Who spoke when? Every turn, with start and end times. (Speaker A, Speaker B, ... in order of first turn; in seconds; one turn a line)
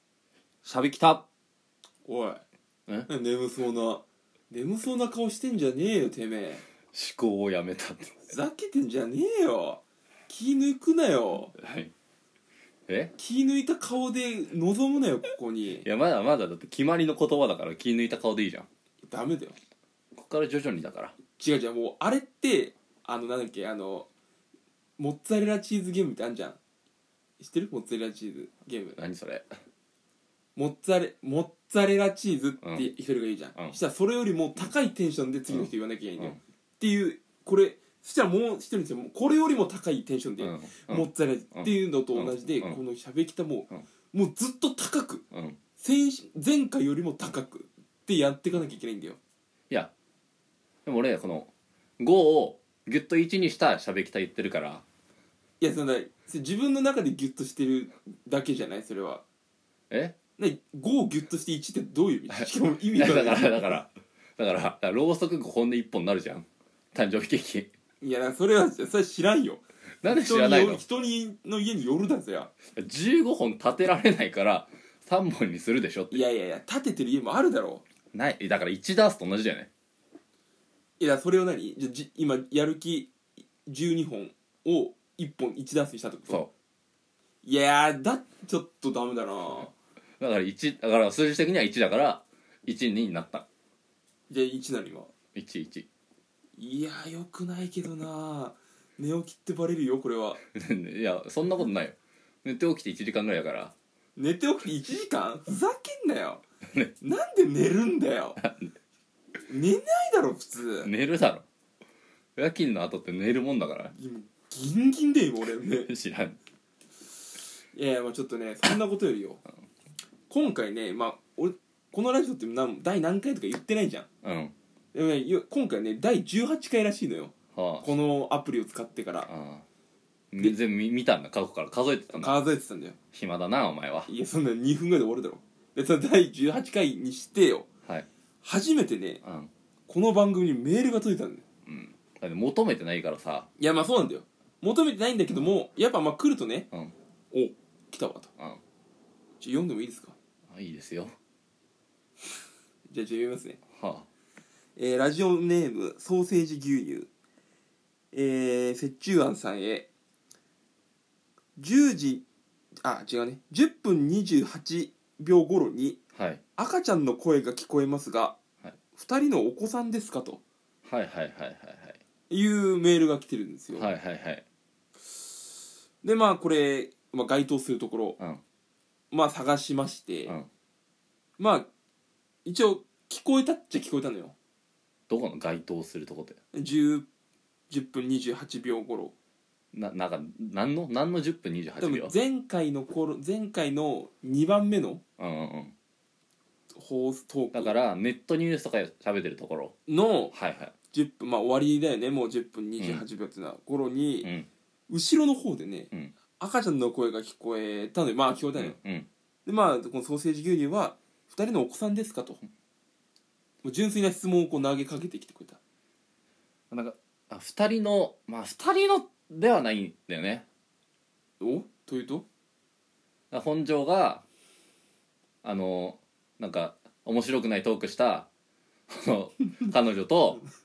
Speaker A: 0.7-1.2
Speaker B: 2.0-2.4
Speaker B: 3.1-6.7
Speaker A: 6.9-8.2
Speaker B: 8.2-11.6
Speaker A: 11.6-11.9
Speaker B: 13.2-15.9
Speaker A: 15.8-18.7
Speaker B: 19.0-19.6
Speaker A: 20.1-21.1
Speaker B: 21.4-24.1
Speaker B: 25.0-26.6
Speaker B: 27.4-29.0
Speaker A: 29.0-29.5
Speaker B: 30.6-45.2
Speaker A: 32.6-32.9
Speaker A: 35.5-36.4
Speaker A: 40.4-42.8
Speaker A: 45.3-45.6
Speaker B: 45.8-49.2
Speaker A: 50.9-54.8
Speaker B: 55.6-59.2
Speaker A: 59.9-60.1
Speaker B: 60.4-63.8
Speaker A: 62.3-67.7
Speaker B: 68.0-72.5
Speaker A: 70.0-70.8
Speaker A: 72.8-76.2
Speaker B: 76.1-77.8
Speaker A: 78.1-79.7
Speaker B: 81.0-83.1
Speaker B: 83.7-86.4
Speaker B: 87.4-89.7
Speaker A: 90.2-93.5
Speaker B: 94.3-95.1
Speaker A: 95.3-95.9
Speaker B: 96.6-100.4
Speaker A: 100.5-103.7
Speaker B: 104.2-106.4
Speaker B: 107.0-108.4
Speaker A: 108.4-108.7
Speaker B: 109.5-110.9
Speaker A: 110.8-111.4
Speaker A: 112.4-113.9
Speaker B: 114.0-115.9
Speaker A: 115.9-116.4
Speaker B: 117.7-119.4
Speaker B: 120.3-124.1
Speaker A: 124.2-124.5
Speaker B: 124.9-129.3
Speaker A: 127.5-127.9
Speaker A: 129.3-129.7
Speaker A: 130.3-132.4
Speaker B: 132.1-133.0
Speaker A: 133.1-134.1
Speaker B: 134.1-137.7
Speaker B: 138.4-139.2
Speaker A: 139.2-139.5
Speaker B: 139.9-141.4
Speaker A: 141.7-143.5
Speaker B: 143.6-146.7
Speaker B: 147.3-148.3
Speaker B: 149.4-150.2
Speaker A: 150.5-151.2
Speaker B: 152.9-153.6
Speaker A: 153.8-154.1
Speaker B: 154.8-157.1
Speaker B: 158.1-159.9
Speaker B: 161.6-162.2
Speaker B: 162.8-166.0
Speaker A: 166.2-166.4
Speaker B: 166.6-168.4
Speaker B: 168.9-170.4
Speaker A: 170.8-172.0
Speaker B: 172.3-173.9
Speaker A: 173.7-174.4
Speaker B: 176.0-178.2
Speaker B: 179.1-180.4
Speaker B: 181.4-181.7
Speaker B: 182.4-184.3
Speaker A: 185.1-186.4
Speaker B: 186.5-187.1
Speaker B: 187.7-189.2
Speaker A: 189.7-192.1
Speaker B: 191.8-195.0
Speaker A: 195.2-195.7
Speaker B: 196.7-197.7
Speaker A: 197.5-199.7
Speaker B: 199.9-200.3
Speaker A: 200.3-200.7
Speaker B: 200.9-204.3
Speaker A: 202.8-203.0
Speaker A: 204.2-204.5
Speaker B: 204.9-208.8
Speaker A: 208.6-209.1
Speaker B: 209.5-212.4
Speaker B: 213.6-215.6
Speaker A: 216.7-220.4
Speaker B: 221.4-222.2
Speaker A: 223.3-224.2
Speaker A: 225.4-228.3
Speaker A: 228.9-230.4